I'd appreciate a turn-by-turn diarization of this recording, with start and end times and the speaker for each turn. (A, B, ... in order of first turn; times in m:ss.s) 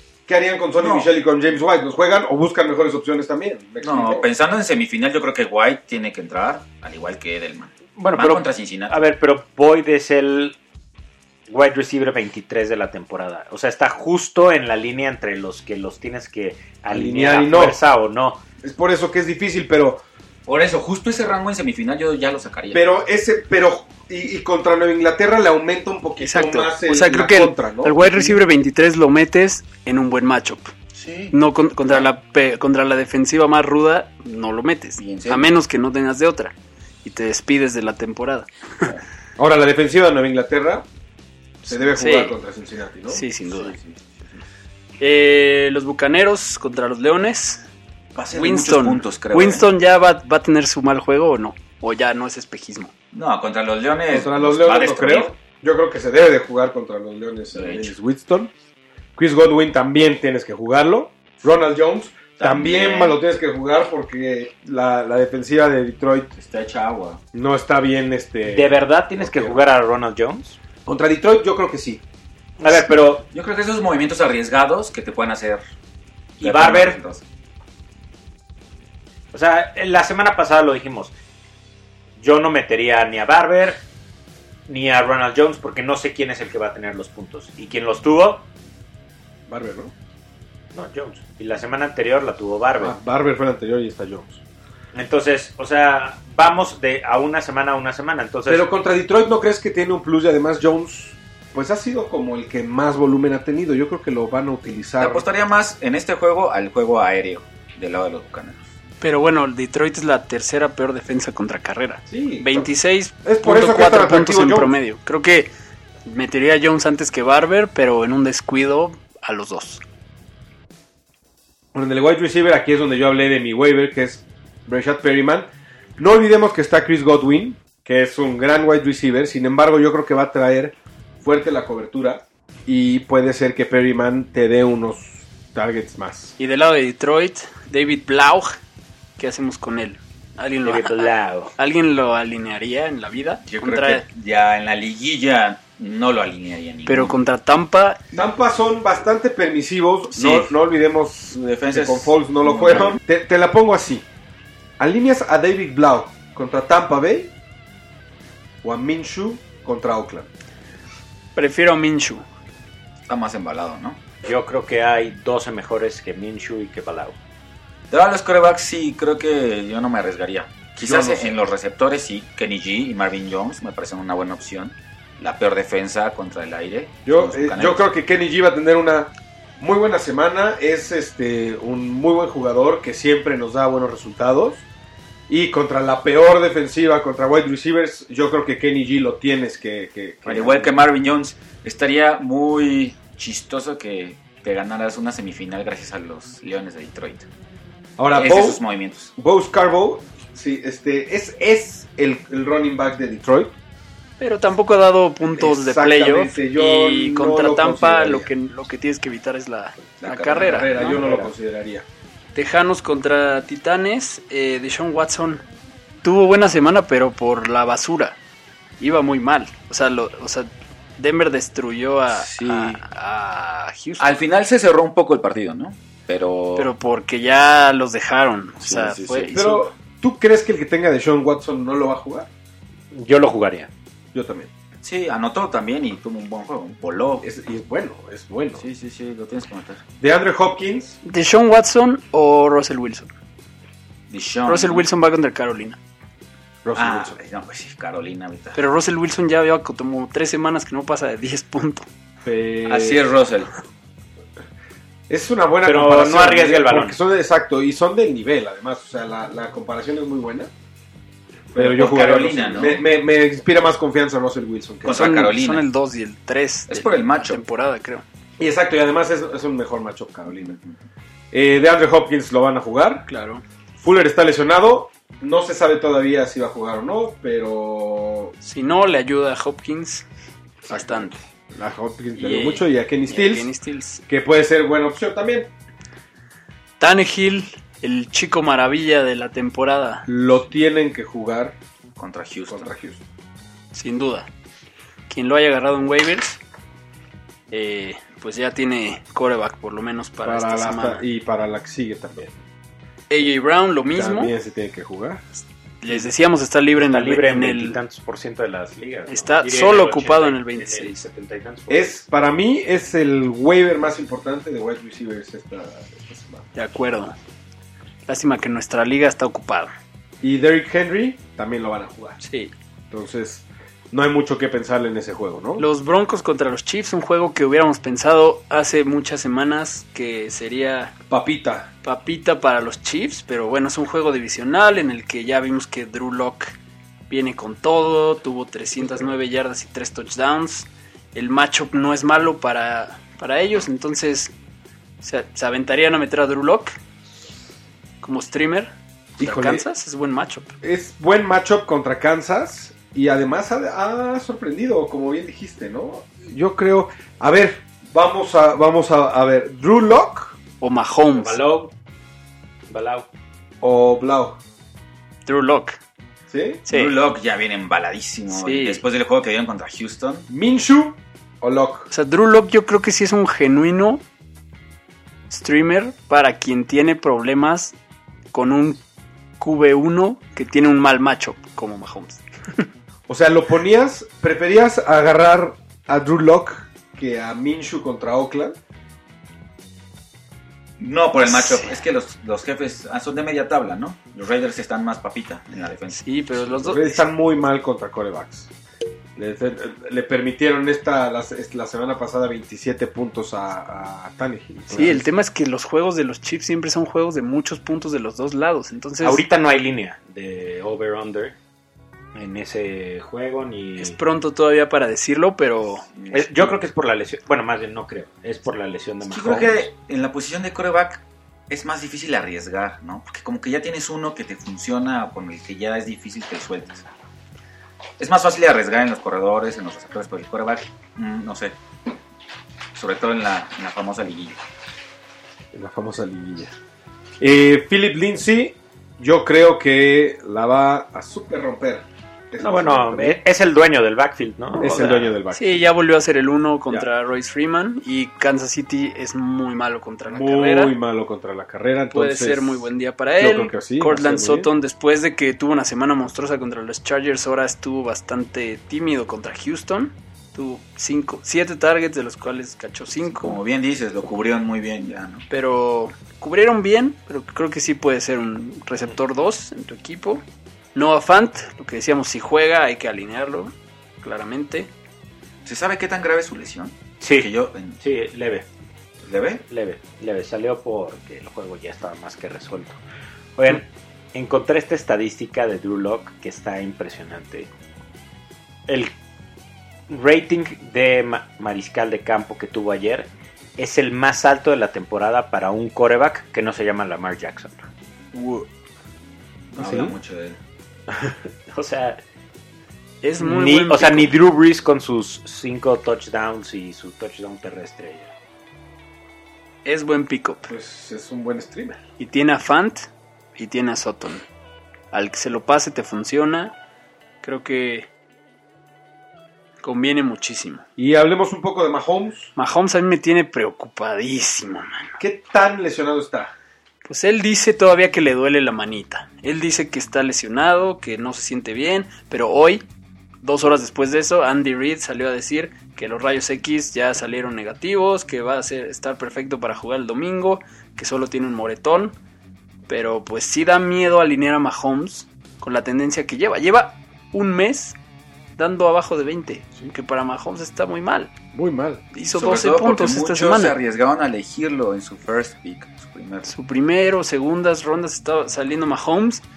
0:00.3-0:04.2 A
0:00.8-0:01.1 B
0:03.8-0:09.0 B
0:08.0-0:10.6 C
0:11.5-0:18.4 C
0:16.9-0:17.8 A
0:18.6-0:20.0 A
0:20.5-0:22.8 B
0:22.7-0:28.4 A
0:26.2-0:30.7 D
0:30.9-0:31.4 B
0:31.3-0:38.9 D
0:35.0-0:35.5 B
0:39.4-0:40.8 A
0:41.7-0:43.8 A
0:41.7-0:42.4 D
0:43.1-0:43.8 D
0:45.0-0:47.7 D
0:48.2-0:49.7 B
0:48.3-0:52.9 D
0:53.1-0:55.3 B
0:54.1-0:58.5 A
0:57.5-0:57.9 B
0:59.2-1:06.3 A
1:02.4-1:03.2 B
1:06.4-1:07.2 B
1:07.3-1:09.6 A
1:08.5-1:10.6 C
1:10.9-1:12.0 A
1:12.6-1:13.3 C
1:13.3-1:15.6 B
1:16.4-1:17.2 B
1:16.4-1:17.0 C
1:19.3-1:21.1 C
1:22.2-1:23.8 C
1:24.7-1:28.5 C
1:29.5-1:29.9 A
1:30.7-1:33.0 C
1:32.8-1:34.4 A
1:34.9-1:38.6 C
1:38.5-1:45.2 A
1:45.0-1:48.7 B
1:49.0-1:55.5 D
1:52.1-1:52.7 A
1:53.2-1:54.7 A
1:56.0-1:59.8 D
2:01.7-2:16.4 A
2:16.4-2:18.6 D
2:19.2-2:24.0 D
2:20.6-2:21.5 C
2:23.4-2:27.2 B
2:26.9-2:28.0 D
2:28.1-2:34.0 A
2:30.1-2:30.5 B
2:31.3-2:33.0 B
2:34.8-2:37.3 A
2:38.6-2:40.3 A
2:41.4-2:42.2 D
2:43.1-2:44.0 B
2:44.2-2:47.2 C
2:47.9-2:57.8 B
2:50.8-2:51.4 A
2:57.1-3:04.6 A
3:05.3-3:10.8 A
3:10.3-3:17.3 B
3:18.0-3:18.6 A
3:18.1-3:19.1 B
3:19.2-3:23.5 A
3:24.2-3:31.0 D
3:25.3-3:28.3 A
3:30.0-3:31.8 A
3:31.0-3:31.2 C
3:32.3-3:35.4 D
3:36.0-3:38.2 D
3:38.8-3:44.1 D
3:42.1-3:42.8 B
3:44.0-3:46.7 B
3:46.6-3:49.7 D
3:48.6-3:49.4 B
3:49.3-3:52.3 A
3:52.9-3:53.7 C
3:54.1-3:54.5 A
3:54.8-3:57.2 B
3:57.2-3:58.6 A
3:58.6-3:59.8 B
4:00.0-4:01.0 A
4:01.0-4:03.1 D
4:04.1-4:04.9 B
4:04.5-4:05.8 D
4:06.6-4:07.2 A
4:06.8-4:08.6 B
4:08.6-4:11.9 D
4:12.2-4:13.0 A
4:12.7-4:13.6 B
4:15.1-4:20.5 A
4:15.6-4:17.0 C
4:21.5-4:25.2 A
4:21.6-4:22.8 B
4:24.8-4:25.6 B
4:24.9-4:28.0 D
4:26.7-4:27.4 B
4:28.4-4:30.6 A
4:30.4-4:30.7 B
4:31.3-4:33.0 A
4:33.1-4:33.4 D
4:33.8-4:38.3 A
4:38.4-4:40.1 D
4:40.7-4:41.2 D
4:40.7-4:43.5 A
4:42.2-4:44.0 D
4:44.1-4:45.5 A
4:46.8-4:50.1 D
4:50.1-4:51.6 A
4:52.0-4:52.7 B
4:52.5-4:53.0 A
4:53.7-4:54.3 D
4:55.1-4:56.4 D
4:57.5-5:01.0 D
5:00.2-5:02.4 A
5:03.1-5:04.3 D
5:03.9-5:05.2 A
5:05.8-5:07.8 D
5:06.8-5:12.0 C
5:09.1-5:11.0 D
5:11.7-5:16.5 A
5:16.6-5:17.1 D
5:18.1-5:19.7 D
5:20.2-5:22.2 A
5:22.2-5:22.5 D
5:22.9-5:25.6 A
5:25.6-5:31.0 D
5:31.1-5:31.7 A
5:31.8-5:36.6 D
5:37.1-5:44.3 D
5:38.8-5:39.1 A
5:45.0-5:46.8 D
5:48.0-5:50.5 D
5:49.2-5:49.7 A
5:50.6-6:00.4 A
6:00.6-6:01.4 D
6:01.1-6:01.7 C
6:02.7-6:03.1 C
6:03.6-6:04.4 A
6:05.3-6:05.8 D
6:06.3-6:06.6 A
6:06.7-6:07.0 D
6:06.7-6:10.3 B
6:08.3-6:08.8 D
6:10.3-6:11.9 A
6:11.9-6:14.0 D
6:15.3-6:17.8 D
6:18.3-6:18.8 D
6:19.4-6:22.7 D
6:23.1-6:28.6 A
6:30.8-6:36.0 B
6:31.2-6:31.7 D
6:35.9-6:37.1 D
6:36.6-6:38.5 A
6:39.2-6:45.0 A
6:44.7-6:49.2 D
6:49.0-6:51.4 C
6:52.2-6:54.0 C
6:53.8-6:55.8 D
6:55.9-6:56.6 B
6:56.1-6:59.7 C
6:59.1-7:06.9 B
7:08.0-7:11.6 B
7:12.7-7:14.4 B
7:15.5-7:16.5 A
7:17.2-7:23.2 A
7:22.4-7:25.2 C
7:24.6-7:25.7 A
7:25.3-7:30.8 D
7:30.1-7:34.5 A
7:31.9-7:43.4 D
7:43.0-7:45.2 B
7:45.3-7:50.2 D
7:50.8-7:54.7 D
7:55.4-7:57.8 B
7:57.0-7:58.5 C
7:59.0-7:59.4 B
7:59.5-8:02.8 C
8:03.4-8:07.5 C
8:08.7-8:09.0 C
8:09.9-8:17.7 C
8:18.2-8:18.4 D
8:19.5-8:20.4 B
8:19.6-8:19.9 A
8:20.9-8:22.0 C
8:23.0-8:24.1 D
8:23.2-8:28.1 C
8:29.6-8:30.5 D
8:30.5-8:31.8 A
8:32.0-8:34.2 D
8:34.9-8:36.6 D
8:37.2-8:37.9 D
8:39.6-8:40.6 D
8:40.8-8:42.3 A
8:42.4-8:45.0 D
8:45.0-8:46.3 A
8:46.8-8:52.6 D
8:53.2-9:02.0 D
9:02.7-9:07.8 D
9:08.4-9:11.1 D
9:11.3-9:11.8 A
9:11.9-9:13.6 D
9:12.1-9:16.3 B
9:16.2-9:19.2 D